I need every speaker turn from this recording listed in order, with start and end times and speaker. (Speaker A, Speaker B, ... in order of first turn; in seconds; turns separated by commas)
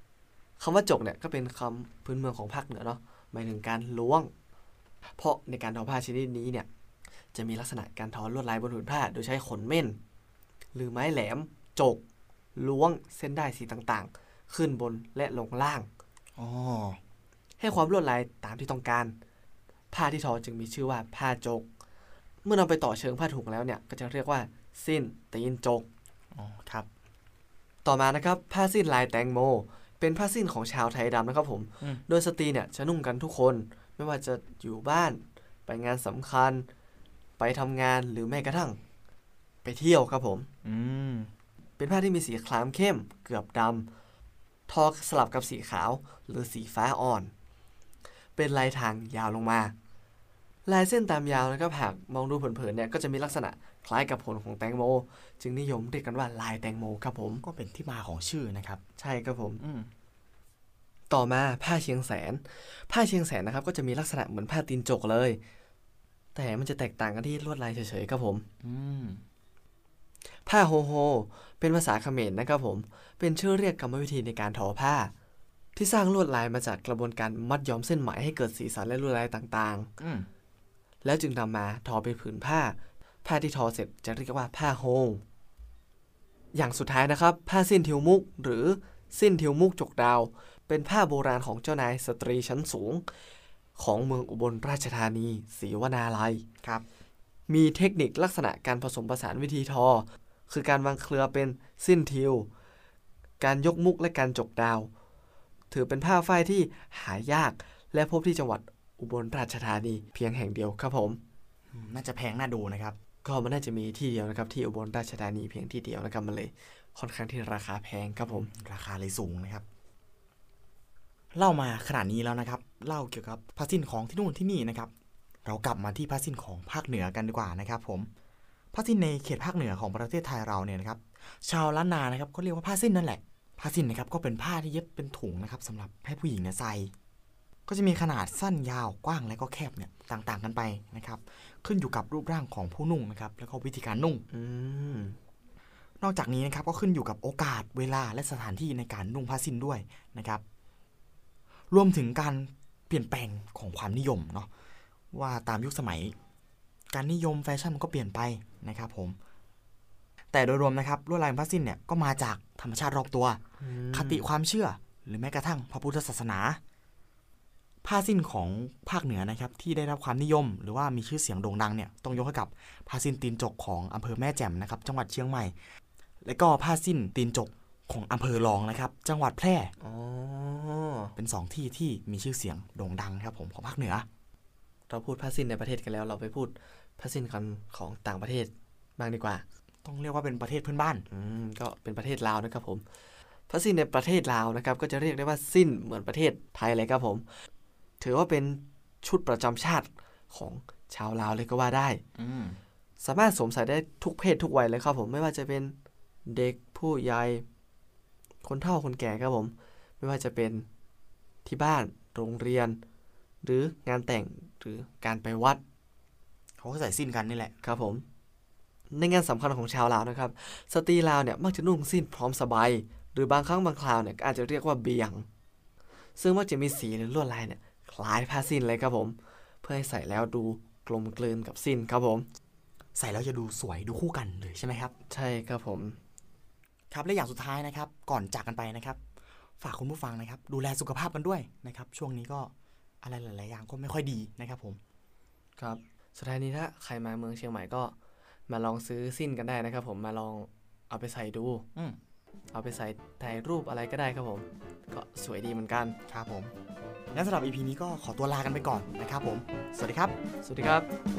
Speaker A: 0.6-4.3, Speaker A: 5.2-6.7, Speaker A: 7.3-10.0, Speaker A: 10.7-12.0, Speaker A: 12.5-15.9, Speaker B: 16.4-17.0, Speaker A: 17.6-19.1, Speaker A: 19.9-21.7, Speaker A: 22.4-25.9, Speaker B: 26.3-26.9, Speaker A: 27.8-36.6, Speaker A: 37.4-38.8, Speaker A: 39.6-40.5, Speaker B: 40.6-41.3, Speaker A: 41.8-43.9, Speaker A: 44.7-47.3, Speaker A: 48.4-49.7, Speaker A: 50.6-57.4, Speaker B: 57.4-58.8, Speaker A: 59.0-59.6, Speaker B: 59.6-59.9, Speaker A: 61.1-65.4, Speaker A: 66.3-68.5, Speaker B: 68.6-69.2, Speaker A: 70.4-75.1, Speaker A: 75.8-79.9, Speaker B: 80.0-80.3, Speaker A: 81.0-85.2, Speaker A: 86.5-93.0, Speaker A: 93.8-96.4, Speaker A: 97.5-102.5, Speaker A: 103.4-104.9, Speaker A: 105.7-111.2, Speaker B: 111.7-113.0, Speaker A: 113.2-118.5, Speaker B: 118.5-119.6, Speaker B: 121.3-124.9, Speaker B: 125.4-128.1, Speaker B: 128.7-136.9, Speaker B: 137.7-144.2, Speaker A: 144.3-145.2, Speaker B: 146.0-150.4, Speaker B: 151.7-154.5, Speaker B: 155.1-156.1, Speaker B: 156.9-159.2, Speaker B: 160.3-163.4, Speaker A: 163.6-164.3, Speaker B: 163.9-166.6, Speaker B: 167.8-175.5, Speaker B: 176.2-179.7, Speaker A: 179.8-181.1, Speaker B: 181.2-184.1, Speaker A: 184.9-189.4, Speaker B: 189.8-191.0, Speaker A: 191.1-192.8, Speaker A: 193.5-197.2, Speaker A: 198.0-202.0, Speaker B: 202.2-202.6, Speaker A: 203.0-205.8, Speaker A: 206.3-207.4, Speaker A: 208.4-210.7, Speaker A: 211.4-212.8, Speaker A: 213.4-215.6, Speaker B: 216.6-217.5, Speaker A: 217.6-218.0, Speaker A: 218.9-225.2, Speaker A: 226.2-232.3, Speaker B: 232.9-234.9, Speaker A: 235.1-236.0, Speaker B: 236.9-239.0, Speaker B: 239.6-242.5, Speaker B: 243.0-244.8, Speaker A: 245.6-247.9, Speaker A: 248.5-251.7, Speaker A: 252.5-256.0, Speaker B: 256.1-256.5, Speaker B: 257.1-260.1, Speaker A: 260.4-260.9